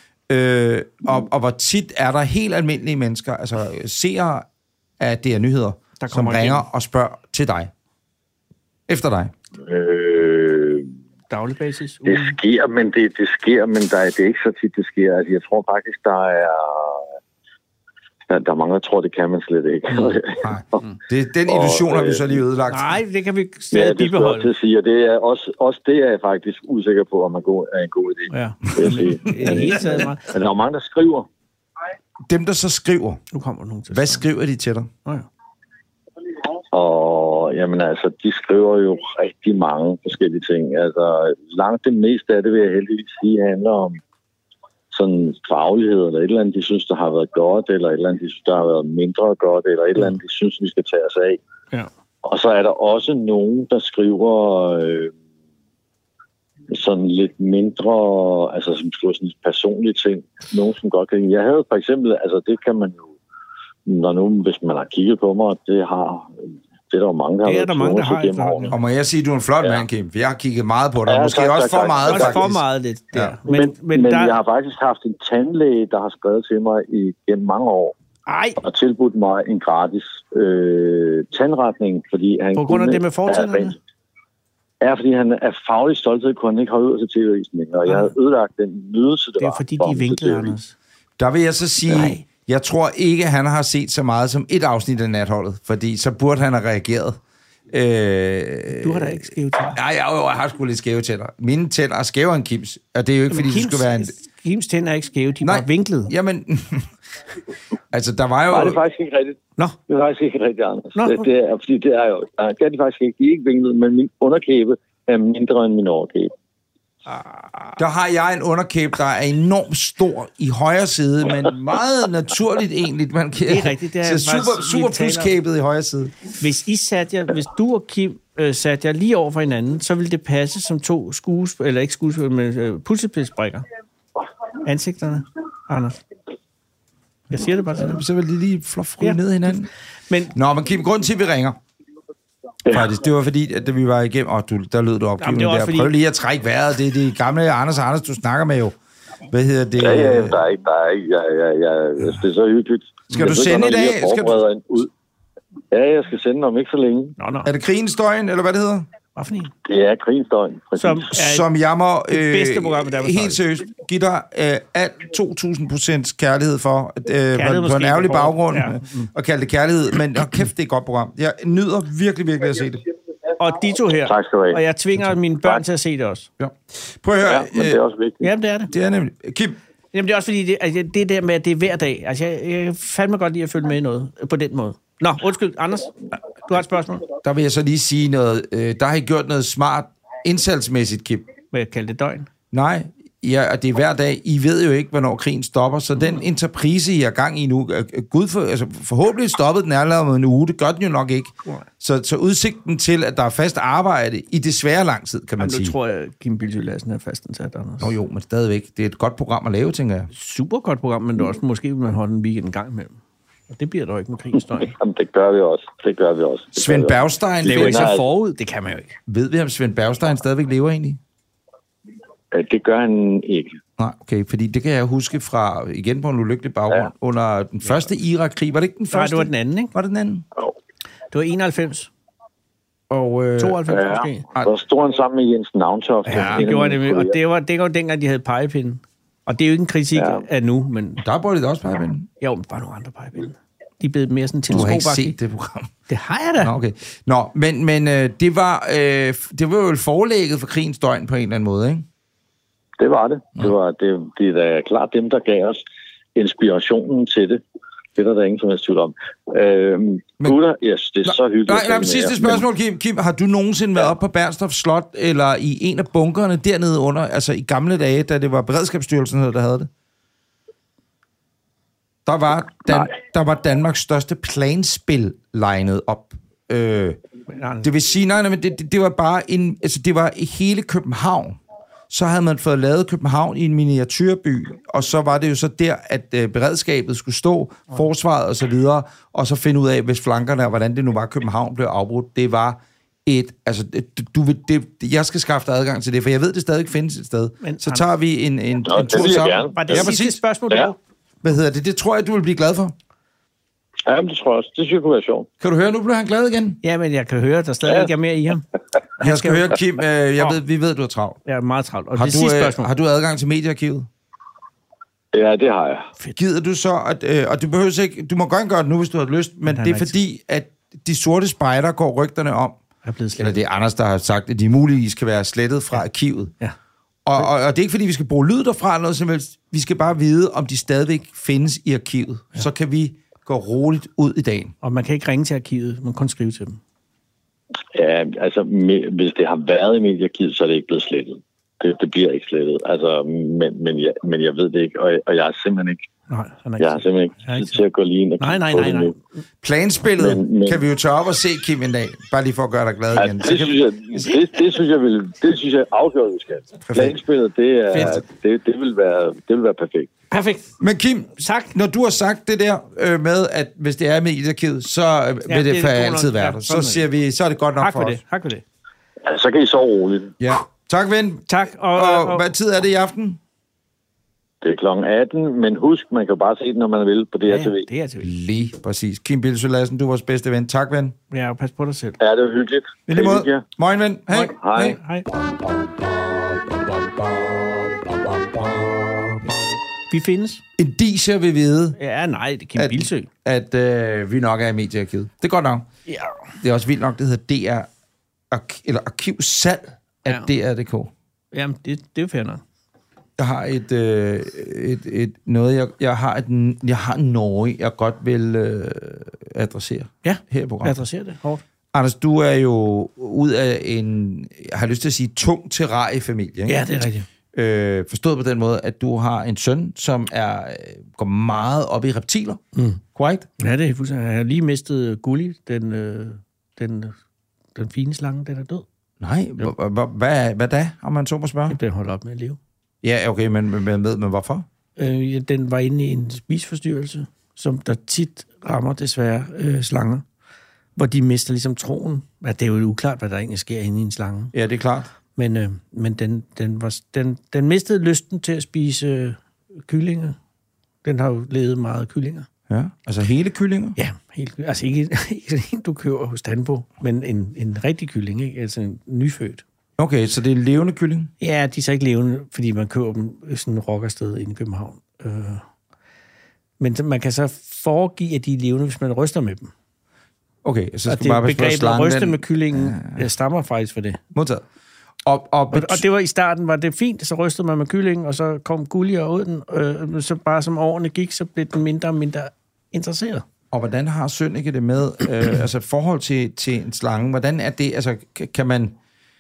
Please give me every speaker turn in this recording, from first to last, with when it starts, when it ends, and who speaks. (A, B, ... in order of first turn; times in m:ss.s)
0:00.3-0:04.5 A
0:05.0-0:07.7 A
0:06.0-0:06.6 B
0:08.9-0:09.3 A
0:09.6-0:10.9 C
0:11.3-0:12.4 B
0:12.1-0:17.1 C
0:18.3-0:20.8 C
0:19.9-0:20.2 B
0:20.4-0:22.9 A
0:21.5-0:22.4 C
0:22.7-0:24.5 B
0:23.7-0:31.3 C
0:28.3-0:30.3 B
0:32.3-0:33.2 A
0:33.3-0:34.3 B
0:33.9-0:34.9 A
0:36.7-0:44.0 C
0:44.9-0:51.4 C
0:52.2-0:55.1 C
0:56.7-1:03.1 C
1:03.9-1:08.7 C
1:07.4-1:08.8 B
1:08.7-1:12.6 A
1:11.1-1:12.4 C
1:12.1-1:14.4 B
1:13.1-1:13.4 A
1:13.5-1:18.0 C
1:18.3-1:18.6 B
1:18.6-1:23.8 C
1:22.6-1:23.8 B
1:24.8-1:30.6 C
1:27.9-1:28.1 B
1:29.4-1:30.7 B
1:31.2-1:37.2 A
1:31.9-1:32.2 B
1:37.7-1:44.2 A
1:38.7-1:39.8 B
1:43.3-1:46.1 B
1:45.4-1:46.9 A
1:47.9-1:48.8 A
1:48.5-1:56.3 C
1:51.0-1:51.3 B
1:57.1-1:57.8 B
1:57.8-2:06.1 A
2:03.5-2:05.3 B
2:06.4-2:13.6 B
2:14.6-2:16.0 B
2:17.3-2:18.0 B
2:17.3-2:19.7 A
2:19.0-2:20.3 B
2:20.3-2:21.6 A
2:22.7-2:28.8 A
2:25.2-2:25.9 B
2:29.3-2:30.4 A
2:29.8-2:34.9 C
2:33.1-2:34.4 A
2:35.7-2:37.2 C
2:37.2-2:37.5 B
2:37.4-2:38.9 A
2:39.2-2:39.5 B
2:39.7-2:41.1 C
2:40.8-2:41.5 B
2:41.1-2:52.8 A
2:42.1-2:43.4 B
2:47.3-2:49.1 B
2:53.4-2:56.3 B
2:54.0-2:54.6 C
2:56.4-2:57.8 A
2:57.2-2:58.3 C
2:58.2-2:58.7 B
2:58.7-2:59.6 A
2:59.9-3:07.0 B
3:07.2-3:11.3 A
3:11.5-3:12.3 B
3:12.5-3:25.8 A
3:25.4-3:27.9 B
3:27.8-3:30.1 A
3:30.1-3:33.0 B
3:33.5-3:34.8 B
3:34.7-3:38.0 C
3:36.6-3:37.9 A
3:37.4-3:39.0 B
3:39.1-3:41.0 A
3:42.3-3:43.6 C
3:43.8-3:50.2 A
3:48.9-3:49.7 B
3:51.1-3:51.9 B
3:52.9-3:53.6 A
3:53.4-3:54.3 B
3:53.7-3:57.2 C
3:56.1-4:01.0 B
4:00.0-4:00.2 C
4:01.0-4:02.1 A
4:02.2-4:05.2 B
4:04.5-4:05.7 A
4:05.9-4:06.5 B
4:06.4-4:11.9 A
4:12.8-4:15.6 C
4:16.2-4:17.4 C
4:18.0-4:22.4 C
4:21.0-4:29.7 A
4:32.1-4:37.0 A
4:37.3-4:37.7 B
4:37.6-4:41.4 A
4:41.9-5:00.2 A
4:57.4-4:57.9 B
4:58.7-4:59.9 C
4:59.5-5:00.8 B
5:01.2-5:02.8 A
5:03.9-5:05.3 C
5:05.4-5:06.6 A
5:06.6-5:08.5 B
5:09.0-5:09.6 B
5:09.0-5:11.2 A
5:11.3-5:12.7 B
5:12.0-5:13.9 A
5:15.1-5:15.9 C
5:16.2-5:22.6 A
5:19.5-5:20.0 B
5:22.8-5:23.4 B
5:23.2-5:26.3 A
5:27.0-5:34.5 A
5:34.6-5:36.6 B
5:37.7-5:45.8 C
5:46.1-5:47.6 B
5:46.6-5:49.0 C
5:48.2-5:49.0 B
5:49.4-5:53.6 A
5:50.0-5:50.6 C
5:53.0-5:59.9 C
5:56.7-5:57.0 A
5:57.7-5:58.0 B
6:00.1-6:00.5 B
6:00.6-6:08.0 A
6:01.2-6:01.5 B
6:05.3-6:06.9 B
6:07.6-6:08.4 B
6:09.0-6:10.1 C
6:10.2-6:13.2 A
6:11.3-6:12.3 B
6:14.4-6:17.7 C
6:17.3-6:18.1 B
6:18.0-6:21.0 A
6:21.1-6:22.0 B
6:22.0-6:23.4 C
6:22.9-6:29.4 A
6:24.1-6:25.1 B
6:24.4-6:24.8 C
6:29.9-6:30.4 B
6:30.6-6:31.8 A
6:31.8-6:33.1 B
6:32.6-6:35.7 A
6:35.9-6:36.2 B
6:36.4-6:37.7 A
6:38.3-6:40.9 A
6:41.3-6:42.4 B
6:43.2-6:50.8 A
6:50.0-6:51.4 B
6:51.7-6:56.6 A
6:56.5-6:57.1 B
6:57.3-7:02.4 A
7:02.6-7:02.8 B
7:02.9-7:03.3 A
7:03.4-7:07.0 B
7:07.6-7:08.6 B
7:09.0-7:11.6 A
7:11.5-7:12.4 B
7:12.8-7:14.5 A
7:14.8-7:20.0 B
7:20.8-7:24.3 B
7:24.3-7:24.9 A
7:25.2-7:30.2 B
7:30.8-7:32.3 B
7:32.5-7:33.8 A
7:33.8-7:39.4 B
7:39.8-7:41.1 A
7:41.2-7:45.4 B
7:46.6-7:49.5 B
7:50.4-7:53.1 A
7:50.9-7:54.0 B
7:54.1-7:54.4 A
7:55.0-7:55.8 A
7:55.5-8:03.2 B
8:03.5-8:08.8 A